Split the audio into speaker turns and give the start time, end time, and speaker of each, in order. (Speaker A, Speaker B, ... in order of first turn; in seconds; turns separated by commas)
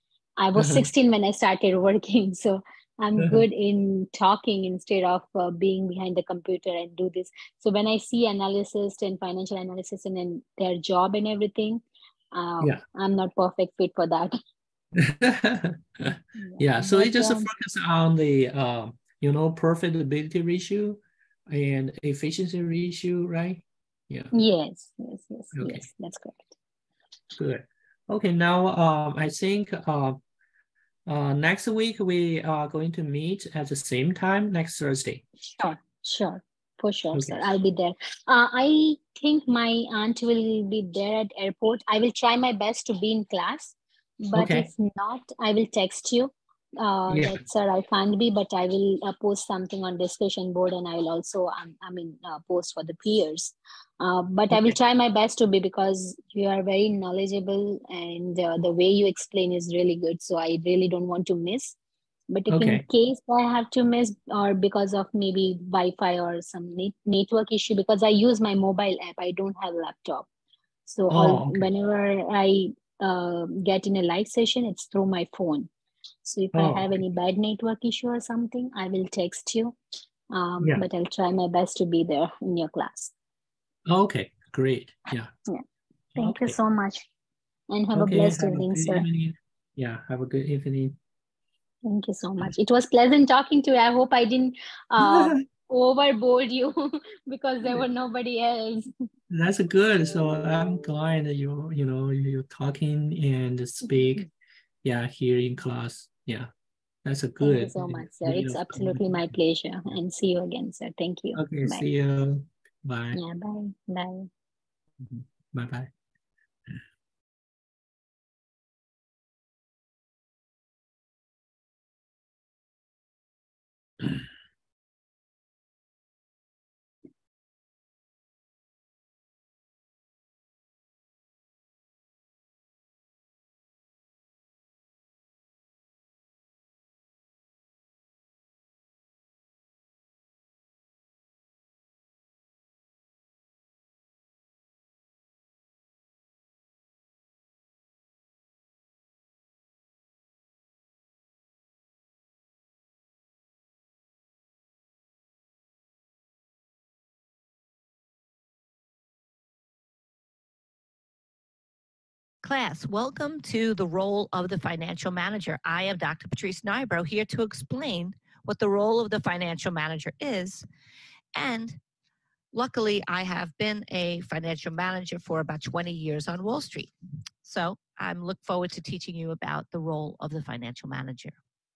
Speaker A: 0.4-14.4, Speaker B: 0.6-0.9, Speaker B: 3.2-3.4, Speaker B: 14.9-24.3, Speaker A: 16.4-17.5, Speaker A: 24.3-26.6, Speaker B: 25.5-25.9, Speaker B: 27.4-30.2, Speaker B: 31.1-35.2, Speaker A: 35.6-61.8, Speaker B: 37.1-37.5, Speaker B: 44.3-44.7, Speaker B: 47.1-47.4, Speaker A: 62.3-70.3, Speaker B: 62.5-62.8, Speaker A: 70.9-75.7, Speaker B: 71.1-71.7, Speaker A: 76.2-79.8, Speaker B: 76.5-77.0, Speaker A: 80.3-83.1, Speaker B: 83.9-85.3, Speaker B: 86.2-86.6, Speaker A: 86.2-87.1, Speaker A: 87.7-89.1, Speaker B: 87.9-91.0, Speaker A: 91.8-98.9, Speaker B: 95.0-95.4, Speaker B: 99.3-104.3, Speaker A: 103.9-104.2, Speaker B: 104.8-106.5, Speaker B: 107.0-109.3, Speaker A: 107.4-111.9, Speaker B: 111.3-113.2, Speaker A: 113.1-114.3, Speaker B: 115.0-115.9, Speaker C: 162.4-170.7, Speaker C: 171.3-171.8, Speaker C: 172.5-181.4